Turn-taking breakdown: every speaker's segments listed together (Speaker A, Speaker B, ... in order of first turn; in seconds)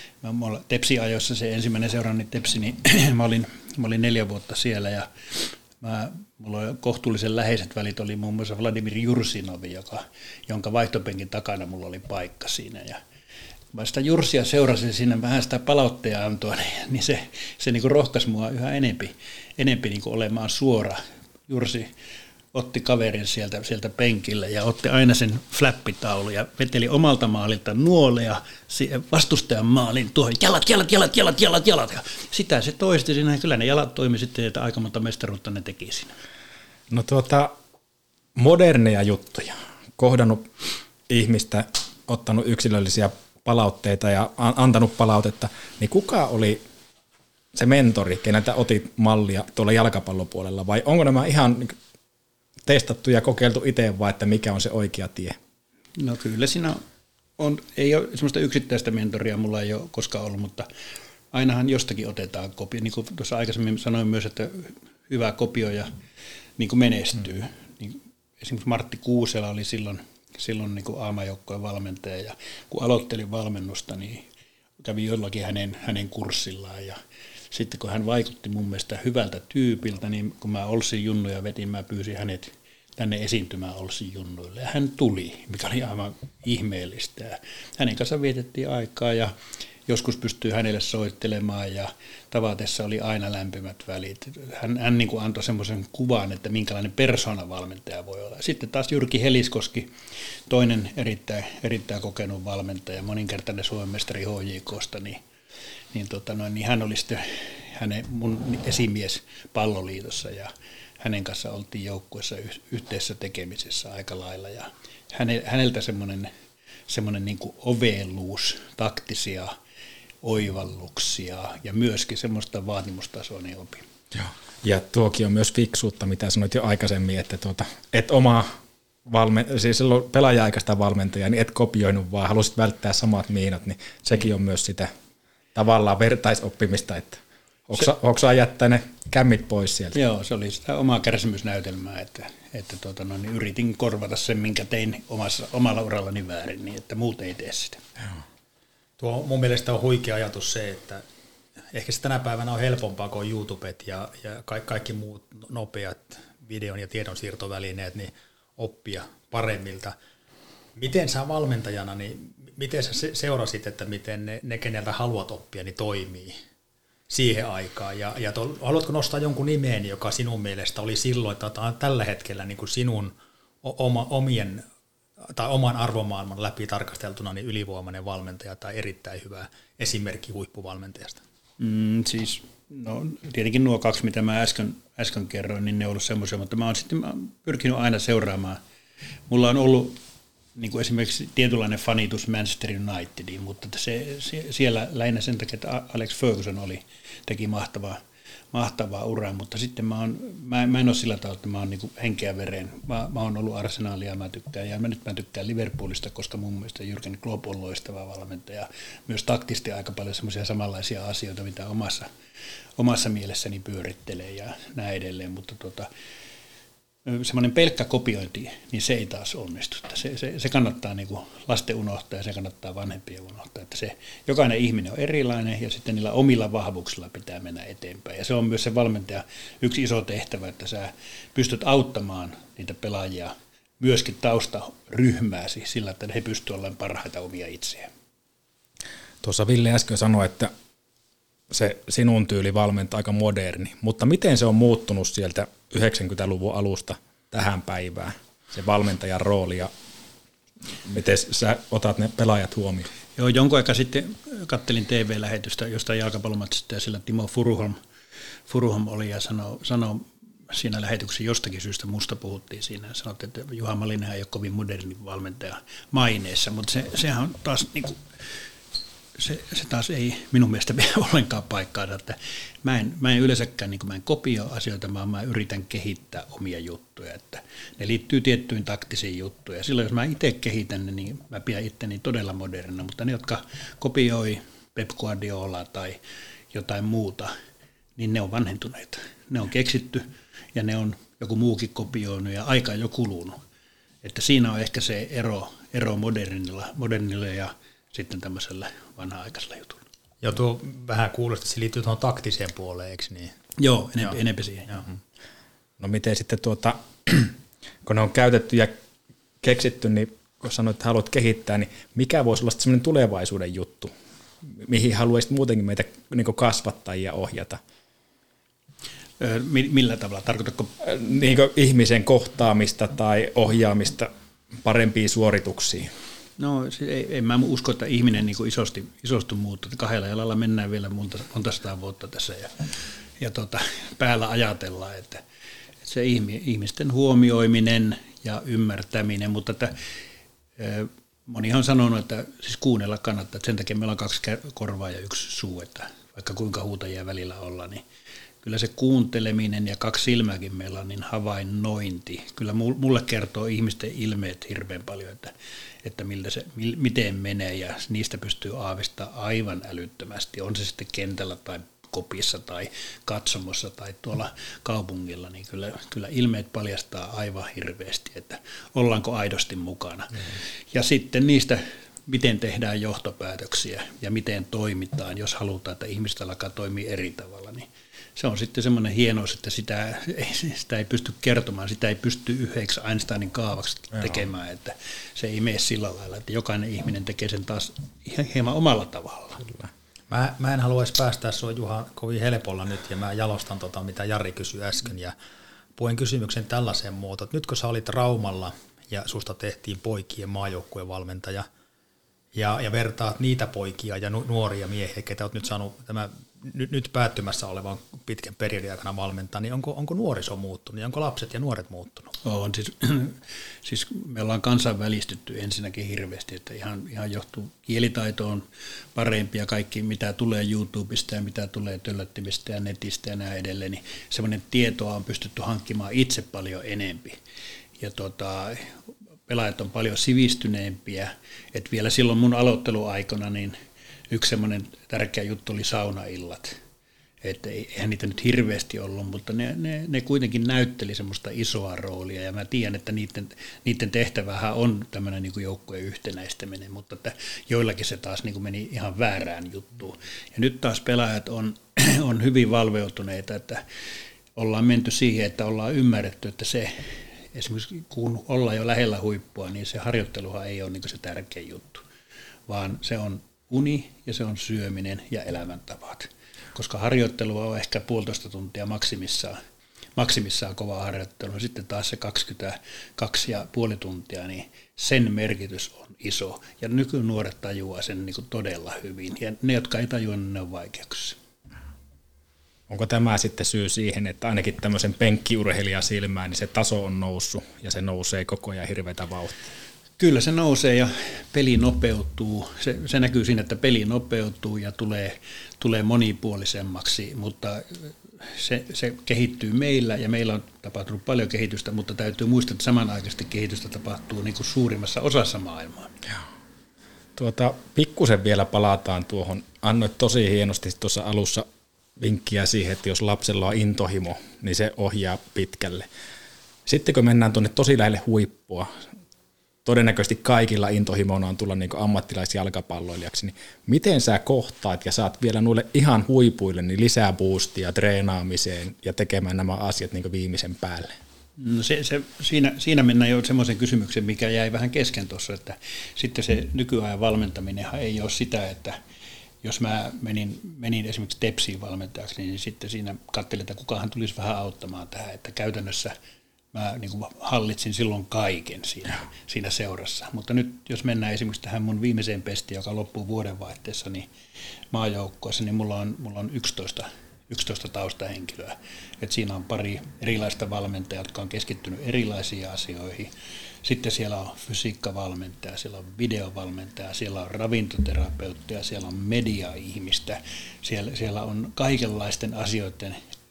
Speaker A: 0.2-13.0, 13.7-21.9, 22.5-36.1, 56.0-56.8, 57.4-60.7, 61.3-65.9, 66.6-74.3, 74.8-77.0, 77.5-89.3, 89.9-99.9, 100.5-105.2, 105.9-116.3, 116.9-119.5, 120.2-123.9, 139.9-147.8, 181.6-188.6, 189.3-190.0, 190.6-198.0, 198.5-212.1, 212.8-215.9, 217.1-237.9, 253.2-257.8, 258.5-268.0, 269.2-286.0, 286.5-287.3, 288.0-293.4, 294.0-299.9, 303.6-304.8, 319.2-320.7, 326.4-332.6, 333.2-335.2, 335.8-339.7, 340.6-347.8, 348.4-355.3, 355.8-389.4, 412.2-427.2, 427.8-433.6, 434.1-436.6, 437.2-453.6, 454.4-461.8, 462.5-469.4, 470.0-481.2, 490.0-505.9, 531.4-538.8, 539.4-545.9, 546.5-554.1, 554.7-563.1, 563.6-573.1
Speaker B: 36.9-37.5, 38.4-40.5, 41.1-46.6, 47.5-51.8, 52.7-55.4, 124.1-128.6, 129.1-134.9, 135.5-140.0, 239.2-240.5, 241.5-249.7, 250.8-252.9, 305.8-308.8, 309.4-313.9, 314.4-317.6, 320.8-324.1, 324.6-325.9, 482.7-489.4, 507.2-511.5, 512.0-515.9, 516.7-518.7, 519.6-531.0
Speaker C: 149.0-151.0, 151.7-160.0, 160.8-166.4, 167.1-174.6, 175.2-181.2, 300.2-303.4, 390.1-395.1, 395.8-401.5, 402.4-412.2